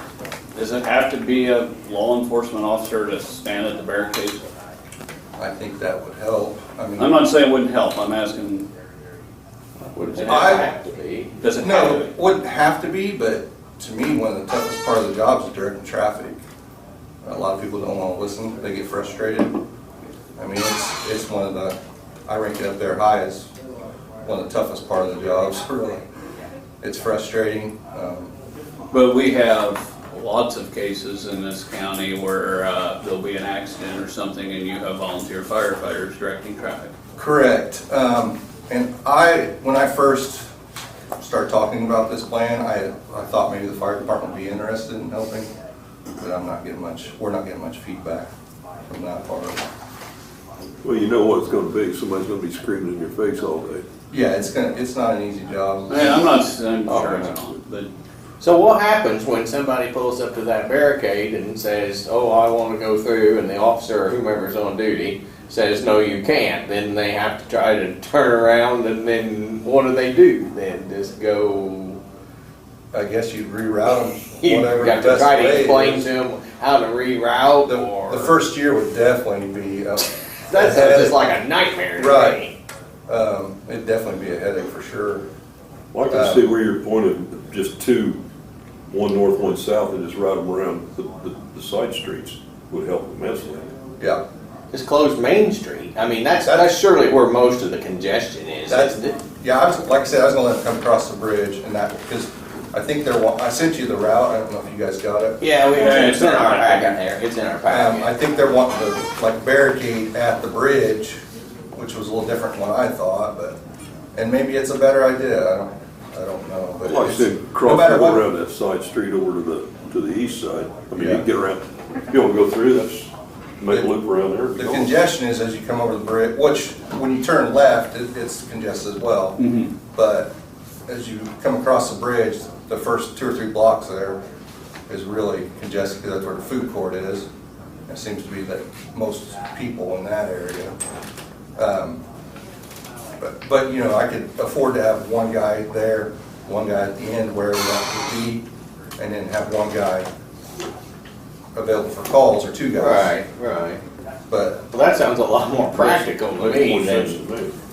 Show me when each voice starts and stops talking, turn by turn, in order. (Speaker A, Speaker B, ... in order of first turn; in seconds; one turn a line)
Speaker A: 0.6-4.4
Speaker B: 5.4-7.2
Speaker A: 7.0-8.7
Speaker C: 9.9-11.3
Speaker A: 9.9-10.6
Speaker B: 10.3-10.7
Speaker A: 11.4-12.1
Speaker B: 11.6-16.4
Speaker B: 17.2-19.6
Speaker B: 20.4-23.5
Speaker B: 24.2-26.0
Speaker B: 26.8-28.3
Speaker A: 28.9-36.9
Speaker B: 37.2-40.5
Speaker B: 41.2-45.5
Speaker B: 46.2-48.3
Speaker B: 48.9-49.6
Speaker D: 50.8-53.9
Speaker B: 54.1-56.3
Speaker A: 55.9-57.9
Speaker C: 56.9-57.3
Speaker C: 58.4-72.0
Speaker B: 72.9-76.1
Speaker C: 74.4-78.4
Speaker B: 77.7-81.2
Speaker C: 80.5-82.5
Speaker B: 82.0-82.4
Speaker B: 83.1-85.2
Speaker D: 85.9-88.2
Speaker B: 86.1-86.5
Speaker D: 88.9-93.7
Speaker C: 94.7-99.2
Speaker B: 96.5-96.8
Speaker B: 98.7-105.4
Speaker C: 105.4-108.1
Speaker A: 105.7-107.0
Speaker B: 107.7-111.2
Speaker B: 111.8-113.6
Speaker B: 114.1-118.2
Speaker D: 116.8-125.0
Speaker B: 121.0-121.3
Speaker B: 124.5-129.4
Speaker A: 129.4-129.7
Speaker B: 129.9-130.3
Speaker B: 130.9-134.2
Speaker B: 134.9-137.3
Speaker B: 137.9-140.8
Speaker B: 141.6-142.0
Speaker B: 143.2-148.4
Speaker B: 149.0-150.1
Speaker B: 151.5-153.1
Speaker C: 152.8-153.8
Speaker B: 154.3-154.6
Speaker C: 154.7-157.2
Speaker D: 155.8-157.6